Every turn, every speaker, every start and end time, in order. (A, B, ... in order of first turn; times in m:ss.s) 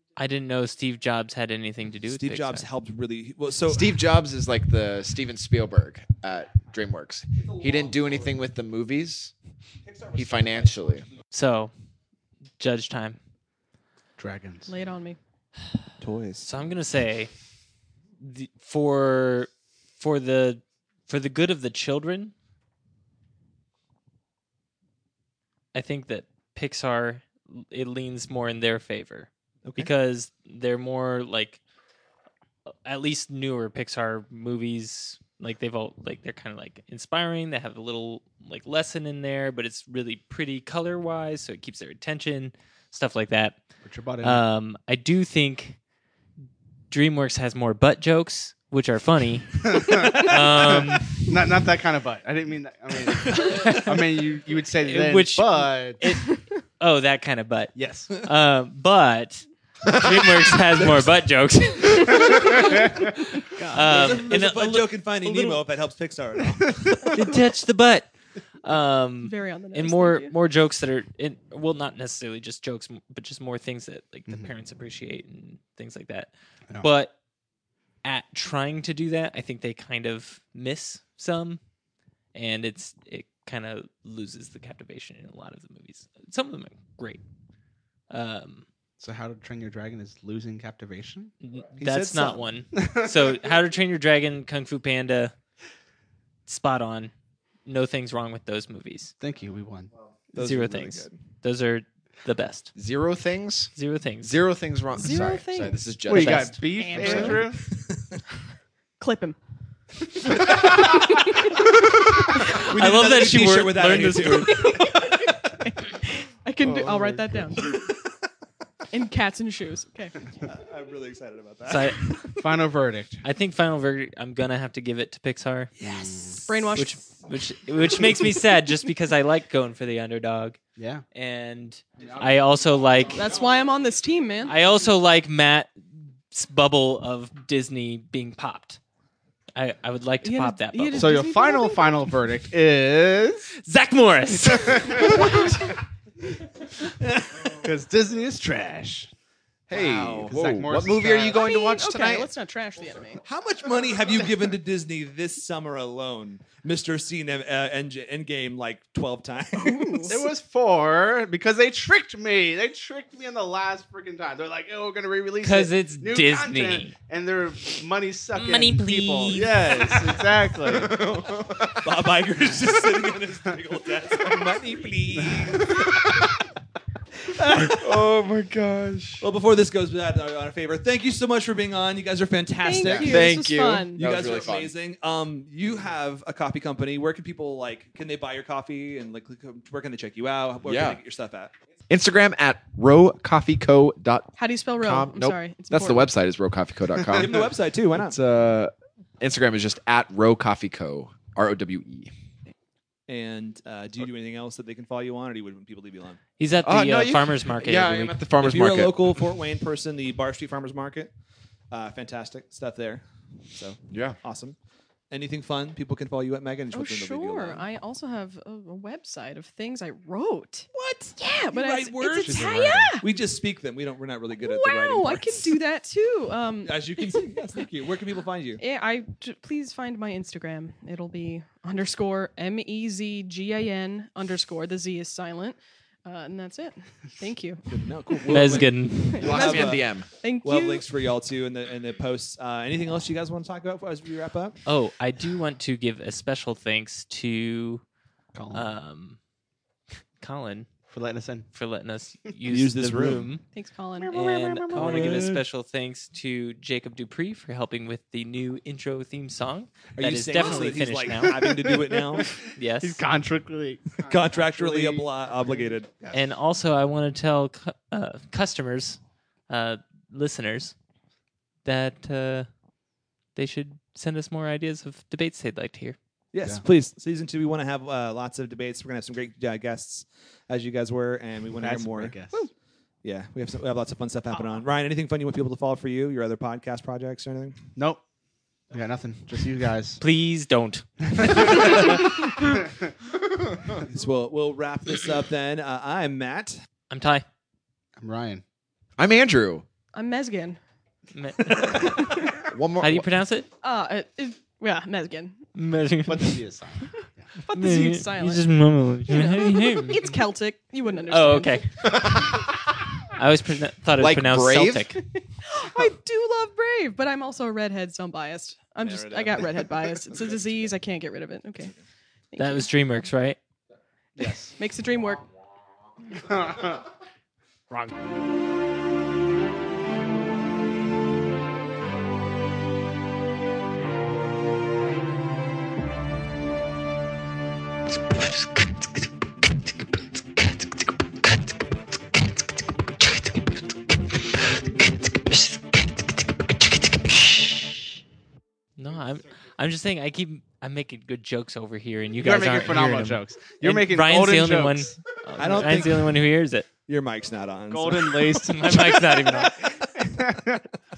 0:00.2-0:02.7 A
0:02.1-0:04.0 B
0:03.7-0:09.3 C
0:07.4-0:08.2 B
0:09.9-0:10.7 B
0:10.1-0:11.1 C
0:11.3-0:11.7 A
0:12.6-0:13.2 A
0:14.2-0:14.7 D
0:14.7-0:15.2 E
0:16.0-0:16.5 B
0:16.4-0:17.3 A
0:18.2-0:22.3 A
0:25.7-0:31.6 A
0:29.6-0:29.9 B
0:32.9-0:43.6 A
0:43.8-0:44.4 D
0:44.2-0:45.8 A
0:46.9-0:51.3 A
0:49.7-0:56.0 D
0:53.1-0:54.1 A
0:54.8-1:05.6 A
0:57.8-0:58.2 D
1:03.5-1:04.3 E
1:03.8-1:07.4 B
1:07.1-1:08.1 A
1:08.6-1:17.2 A
1:09.2-1:10.4 E
1:18.0-1:21.6 A
1:22.4-1:27.2 A
1:28.1-1:28.7 A
1:29.0-1:31.3 D
1:31.4-1:35.3 A
1:31.8-1:32.5 B
1:36.5-1:37.1 A
1:37.7-1:39.1 A
1:39.2-1:39.9 D
1:40.3-1:41.2 B
1:40.3-1:42.7 A
1:42.8-1:47.3 C
1:43.8-1:44.4 A
1:45.0-1:45.8 E
1:46.1-1:47.6 D
1:46.1-1:47.5 A
1:46.8-1:47.5 E
1:49.0-1:49.4 E
1:50.5-1:51.3 E
1:52.5-1:54.9 A
1:52.5-1:54.7 B
1:54.3-1:57.8 E
1:56.6-1:57.5 D
1:58.9-2:00.2 E
2:00.4-2:02.2 B
2:01.7-2:02.3 A
2:02.4-2:03.2 D
2:03.2-2:10.6 A
2:05.8-2:06.4 D
2:06.4-2:07.0 E
2:10.8-2:11.0 D
2:11.1-2:13.3 A
2:13.1-2:14.6 E
2:14.5-2:15.8 A
2:16.3-2:18.8 A
2:19.6-2:21.2 A
2:20.2-2:22.1 E
2:21.0-2:23.5 D
2:23.6-2:25.7 A
2:27.0-2:27.7 B
2:27.6-2:29.1 D
2:29.7-2:32.3 C
2:29.7-2:31.5 D
2:31.3-2:33.2 E
2:33.2-2:40.2 B
2:39.6-2:40.3 E
2:40.1-2:51.0 D
2:45.4-2:47.0 A
2:48.4-2:50.2 A
2:50.7-2:51.8 C
2:51.8-2:56.3 B
2:55.2-2:55.6 D
2:55.7-2:56.1 C
2:57.3-2:57.9 B
2:57.5-2:59.3 C
2:59.2-3:03.4 B
3:02.6-3:04.0 E
3:02.9-3:04.7 C
3:04.0-3:11.5 B
3:10.6-3:11.0 C
3:11.9-3:22.1 C
3:14.4-3:16.1 E
3:17.1-3:18.2 B
3:23.1-3:26.2 B
3:26.4-3:28.2 A
3:26.6-3:29.1 C
3:28.4-3:31.1 B
3:31.7-3:34.6 B
3:33.9-3:34.2 C
3:35.1-3:37.6 B
3:36.7-3:43.1 E
3:40.7-3:45.6 B
3:42.2-3:42.9 D
3:44.4-3:47.4 E
3:46.6-3:48.6 B
3:48.6-4:00.8 E
3:57.7-3:59.9 B
3:58.3-3:59.4 A
3:59.2-4:00.1 C
4:00.4-4:04.6 B
4:04.7-4:07.8 A
4:08.3-4:08.7 D
4:08.5-4:09.2 A
4:10.2-4:10.7 A
4:10.9-4:11.5 D
4:11.5-4:13.4 A
4:12.5-4:13.3 B
4:13.5-4:14.6 E
4:14.0-4:15.2 D
4:14.1-4:21.7 A
4:14.7-4:15.4 B
4:20.0-4:22.4 B
4:20.4-4:20.7 D
4:21.4-4:26.2 D
4:22.5-4:23.0 A
4:24.0-4:25.9 B
4:26.1-4:30.8 A
4:31.6-4:32.5 A
4:33.4-4:36.0 A
4:36.3-4:42.2 B
4:41.6-4:42.4 D
4:43.0-4:47.6 B
4:47.8-4:48.0 D
4:48.7-4:50.0 D
4:50.0-4:52.3 A
4:51.1-4:51.8 D
4:53.8-4:56.6 B
4:56.9-4:57.3 A
4:58.0-4:58.4 D
4:59.0-4:59.6 C
4:59.9-5:00.6 E
5:01.1-5:03.5 A
5:02.3-5:03.1 C
5:03.6-5:05.4 E
5:05.6-5:06.4 A
5:06.1-5:07.3 D
5:07.4-5:08.5 E
5:07.5-5:10.1 A
5:09.1-5:11.6 E
5:11.1-5:12.3 A
5:13.1-5:15.0 A
5:14.0-5:14.9 C
5:15.2-5:21.8 E
5:18.8-5:19.4 B
5:22.3-5:22.7 E
5:22.4-5:23.4 A
5:24.2-5:24.5 D
5:24.6-5:25.3 E
5:26.3-5:26.8 D
5:27.7-5:28.0 A
5:47.3-5:47.7 A
5:48.8-5:56.7 A
5:52.2-5:55.0 D
5:55.4-5:56.3 B
5:56.9-5:58.5 B
5:57.7-6:00.6 D
5:58.4-5:59.8 A